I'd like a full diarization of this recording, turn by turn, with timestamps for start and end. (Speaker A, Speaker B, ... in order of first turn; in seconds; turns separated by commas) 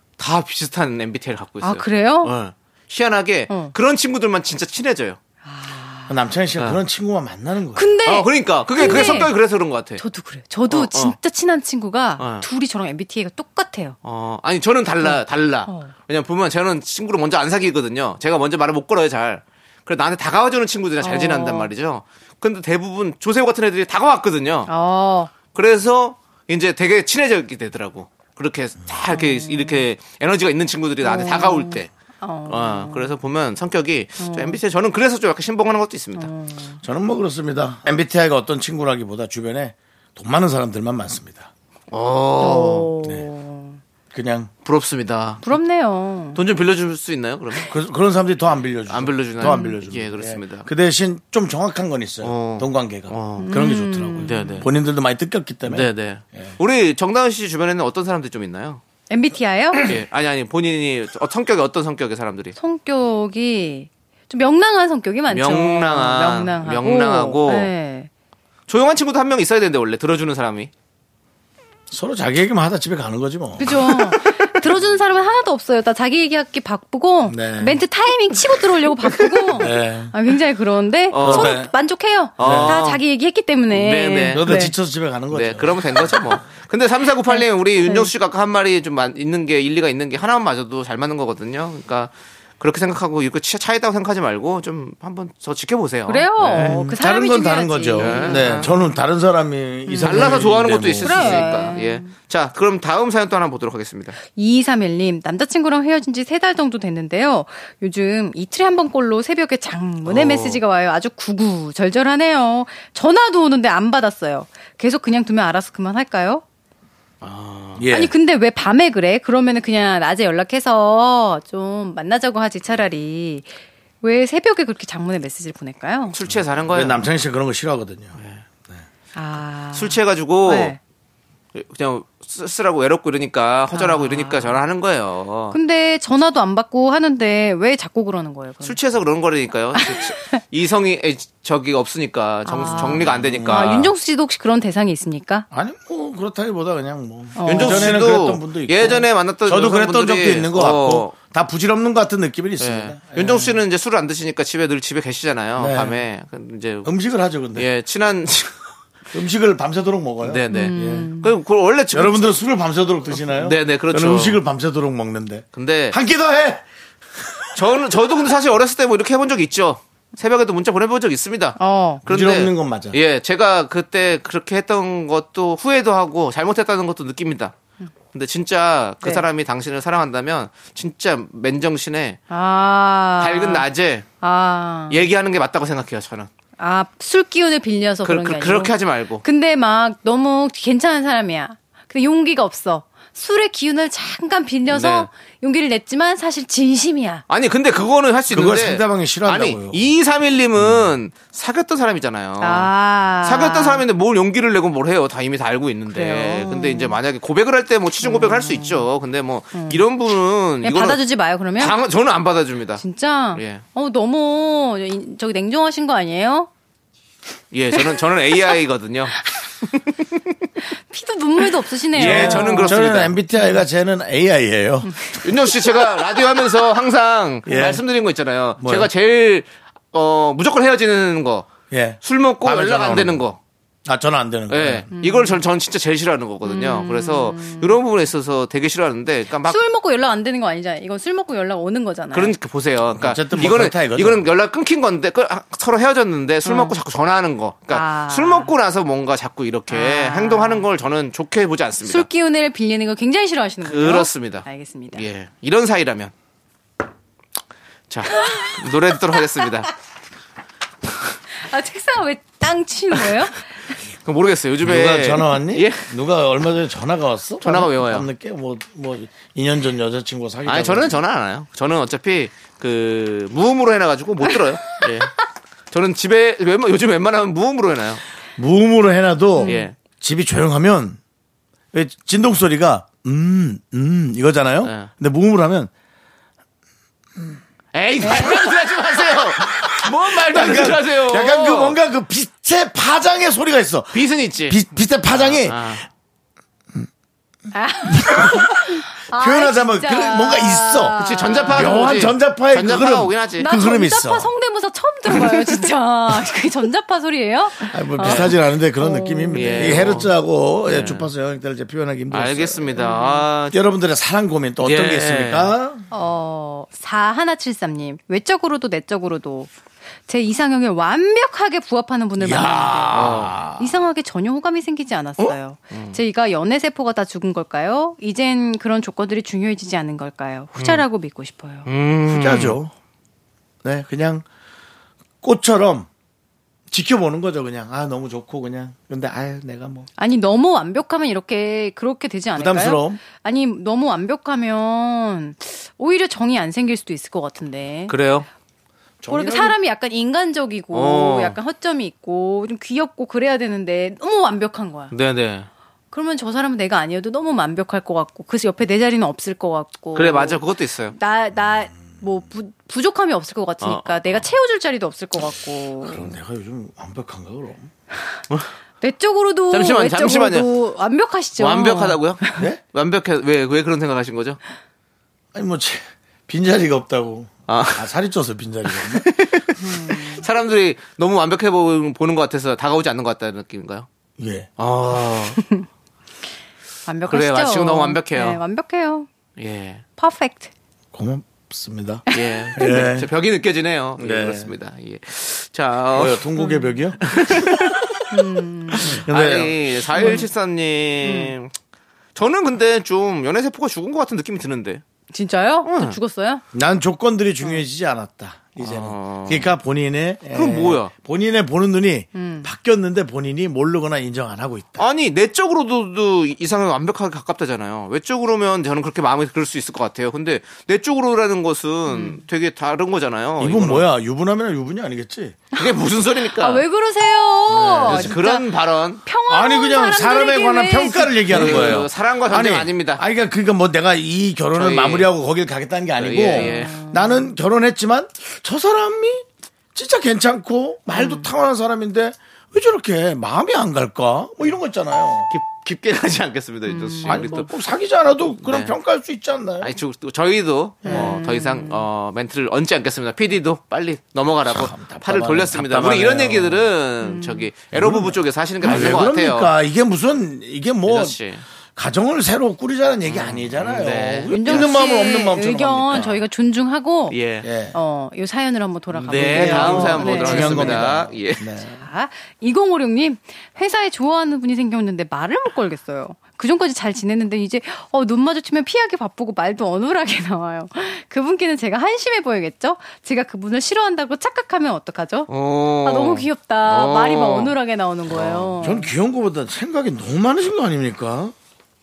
Speaker A: 0.2-5.2, Speaker B: 1.6-2.3, Speaker B: 3.5-3.7, Speaker B: 5.4-6.2, Speaker C: 6.1-7.9, Speaker B: 7.7-9.4, Speaker A: 8.0-10.0, Speaker B: 10.0-14.0, Speaker A: 10.7-11.2, Speaker A: 12.2-12.4, Speaker A: 14.0-24.7, Speaker B: 15.0-15.9, Speaker B: 21.0-21.7, Speaker B: 24.7-25.3, Speaker A: 25.5-31.9, Speaker B: 29.1-29.8, Speaker B: 31.0-33.1, Speaker A: 32.5-36.3, Speaker B: 34.2-34.6, Speaker B: 36.2-36.8, Speaker C: 36.8-41.5, Speaker A: 41.9-42.9, Speaker B: 42.4-43.8, Speaker C: 43.0-43.3, Speaker C: 44.1-44.5, Speaker A: 44.6-45.5, Speaker B: 45.4-46.4, Speaker A: 46.3-47.7, Speaker C: 47.7-56.6, Speaker A: 48.9-50.7, Speaker B: 49.4-49.8, Speaker A: 52.2-53.5, Speaker B: 53.4-54.6, Speaker A: 54.2-54.7, Speaker A: 55.6-58.8, Speaker B: 59.1-60.0, Speaker A: 59.8-62.5, Speaker B: 62.5-68.1, Speaker A: 65.3-67.7, Speaker A: 68.7-70.7, Speaker C: 71.9-74.2, Speaker B: 73.6-84.7, Speaker C: 77.3-77.8, Speaker C: 79.5-80.1, Speaker A: 81.1-81.6, Speaker C: 81.2-81.7, Speaker A: 82.4-83.0, Speaker C: 82.4-82.8, Speaker A: 83.7-84.5, Speaker C: 84.3-86.4, Speaker A: 85.3-96.8, Speaker B: 87.3-88.1, Speaker B: 96.1-98.7, Speaker C: 96.4-101.5, Speaker A: 98.0-98.8, Speaker B: 99.9-100.5, Speaker A: 100.0-104.2, Speaker B: 101.0-102.1, Speaker B: 104.2-116.4, Speaker A: 110.1-110.6, Speaker A: 117.2-117.8, Speaker C: 117.8-118.1, Speaker B: 117.9-126.2, Speaker A: 126.1-127.0, Speaker C: 126.3-128.2, Speaker A: 128.2-128.4, Speaker B: 129.1-130.8, Speaker A: 129.7-130.8, Speaker A: 131.6-135.6, Speaker B: 133.7-134.6, Speaker B: 135.5-138.8, Speaker A: 138.6-143.9, Speaker B: 139.8-140.4, Speaker B: 142.4-145.5, Speaker C: 143.0-143.7, Speaker C: 145.5-153.6, Speaker B: 147.4-148.0, Speaker A: 147.4-151.1, Speaker A: 152.6-156.9, Speaker C: 155.6-156.0, Speaker C: 156.8-157.7, Speaker A: 157.6-158.6, Speaker C: 159.1-161.1, Speaker A: 160.2-162.3, Speaker B: 160.5-161.3, Speaker C: 161.9-166.6, Speaker A: 163.3-164.4, Speaker A: 165.5-166.0, Speaker A: 167.6-177.6, Speaker B: 171.6-172.1, Speaker C: 172.1-172.9, Speaker A: 178.1-182.2, Speaker B: 182.3-183.7, Speaker A: 183.2-184.1, Speaker B: 184.2-185.0, Speaker A: 184.9-186.3, Speaker B: 186.6-197.2, Speaker A: 188.0-189.2, Speaker A: 194.7-195.1, Speaker A: 197.3-211.0, Speaker C: 198.3-199.9, Speaker C: 200.6-200.9, Speaker B: 202.4-203.9, Speaker B: 205.9-207.0, Speaker B: 208.0-208.9, Speaker B: 209.5-209.8, Speaker B: 210.6-211.8, Speaker A: 211.6-212.8, Speaker B: 212.8-216.5, Speaker A: 213.3-213.6, Speaker A: 217.5-219.2, Speaker B: 220.8-223.6, Speaker A: 221.9-223.1, Speaker C: 222.0-225.0, Speaker B: 224.8-225.5, Speaker A: 225.2-231.5, Speaker C: 227.4-227.8, Speaker C: 228.6-228.9, Speaker C: 231.7-233.2, Speaker A: 232.0-233.4, Speaker C: 233.9-234.9, Speaker A: 234.5-239.6, Speaker B: 234.9-235.4, Speaker B: 236.4-237.8, Speaker B: 239.4-242.3, Speaker A: 242.1-252.1, Speaker C: 243.0-244.3, Speaker B: 246.4-246.8, Speaker B: 247.7-248.5, Speaker B: 249.7-250.7, Speaker B: 251.8-255.1, Speaker A: 253.6-256.1, Speaker A: 257.9-259.7, Speaker B: 258.1-258.5, Speaker B: 261.4-263.7, Speaker A: 263.9-265.9, Speaker C: 264.6-270.9, Speaker A: 267.4-268.1, Speaker A: 270.4-275.1, Speaker A: 275.7-278.0, Speaker C: 278.4-281.0, Speaker B: 279.4-279.7, Speaker A: 279.4-279.7, Speaker C: 281.7-285.7, Speaker A: 284.6-284.9, Speaker A: 287.7-291.8, Speaker B: 288.0-288.4, Speaker C: 289.5-295.8, Speaker A: 293.9-294.6, Speaker A: 295.1-295.9, Speaker B: 297.5-301.9, Speaker C: 297.9-304.3, Speaker A: 301.0-303.5, Speaker B: 303.4-309.9, Speaker C: 307.7-312.9, Speaker A: 308.0-308.3, Speaker A: 309.3-310.1, Speaker A: 310.6-311.1, Speaker A: 312.1-313.6, Speaker B: 312.8-313.3, Speaker C: 313.5-315.9, Speaker A: 314.6-315.5, Speaker B: 315.9-319.5, Speaker B: 320.1-331.7, Speaker C: 322.2-323.7, Speaker A: 322.9-323.4, Speaker A: 325.7-326.0, Speaker A: 330.6-330.8, Speaker A: 331.6-332.6, Speaker C: 332.1-332.7, Speaker C: 333.6-334.2, Speaker C: 335.2-335.9, Speaker C: 336.7-339.9, Speaker B: 340.0-348.0, Speaker C: 342.4-343.0, Speaker A: 347.9-348.3, Speaker C: 349.0-349.6, Speaker B: 349.1-354.9, Speaker A: 350.7-351.4, Speaker A: 354.9-355.5, Speaker B: 355.9-360.4, Speaker A: 359.9-360.9, Speaker B: 360.9-366.1, Speaker A: 363.6-364.2, Speaker C: 365.8-367.7, Speaker B: 368.8-372.4, Speaker A: 369.5-370.5, Speaker A: 371.4-374.4, Speaker C: 375.3-379.1, Speaker A: 377.5-377.9, Speaker A: 378.7-383.9, Speaker B: 379.6-380.2, Speaker C: 384.2-384.5, Speaker A: 384.6-385.4, Speaker B: 385.4-385.6, Speaker B: 386.9-389.1, Speaker A: 387.1-388.4, Speaker A: 389.4-389.8, Speaker B: 390.0-390.5, Speaker C: 390.9-392.1, Speaker B: 392.1-392.8, Speaker A: 392.1-396.3, Speaker C: 392.6-393.1, Speaker C: 394.0-394.5, Speaker C: 395.9-397.8, Speaker B: 396.4-396.8, Speaker A: 397.1-397.8, Speaker B: 398.1-399.0, Speaker A: 398.8-401.5, Speaker C: 398.8-400.1, Speaker B: 399.9-400.3, Speaker B: 401.0-401.3, Speaker A: 402.1-404.8, Speaker B: 405.1-406.4, Speaker A: 405.6-406.0, Speaker C: 406.5-414.8, Speaker A: 408.6-409.5, Speaker A: 410.3-410.9, Speaker B: 412.1-412.5, Speaker A: 414.8-423.9, Speaker B: 421.9-422.2, Speaker C: 423.4-425.4, Speaker A: 425.6-426.6, Speaker B: 426.3-428.5, Speaker A: 427.5-429.0, Speaker B: 429.0-431.8, Speaker C: 429.3-445.3, Speaker A: 431.3-433.0, Speaker A: 434.6-435.1, Speaker A: 436.0-436.8, Speaker B: 436.2-437.3, Speaker B: 440.9-441.3, Speaker A: 445.3-447.5, Speaker B: 446.7-447.3, Speaker C: 447.1-449.8, Speaker A: 448.4-448.7, Speaker A: 449.6-459.5, Speaker B: 450.8-451.9, Speaker C: 454.4-456.7, Speaker B: 457.0-457.5, Speaker C: 457.7-461.2, Speaker A: 460.9-461.4, Speaker C: 461.8-466.2, Speaker A: 463.1-464.9, Speaker B: 464.3-467.2, Speaker A: 467.1-467.5, Speaker C: 467.4-467.8, Speaker B: 467.7-470.8, Speaker A: 468.9-471.5, Speaker C: 469.1-471.9, Speaker B: 471.7-485.3, Speaker A: 485.3-487.6, Speaker B: 485.8-488.9, Speaker A: 488.1-488.6, Speaker C: 488.6-491.3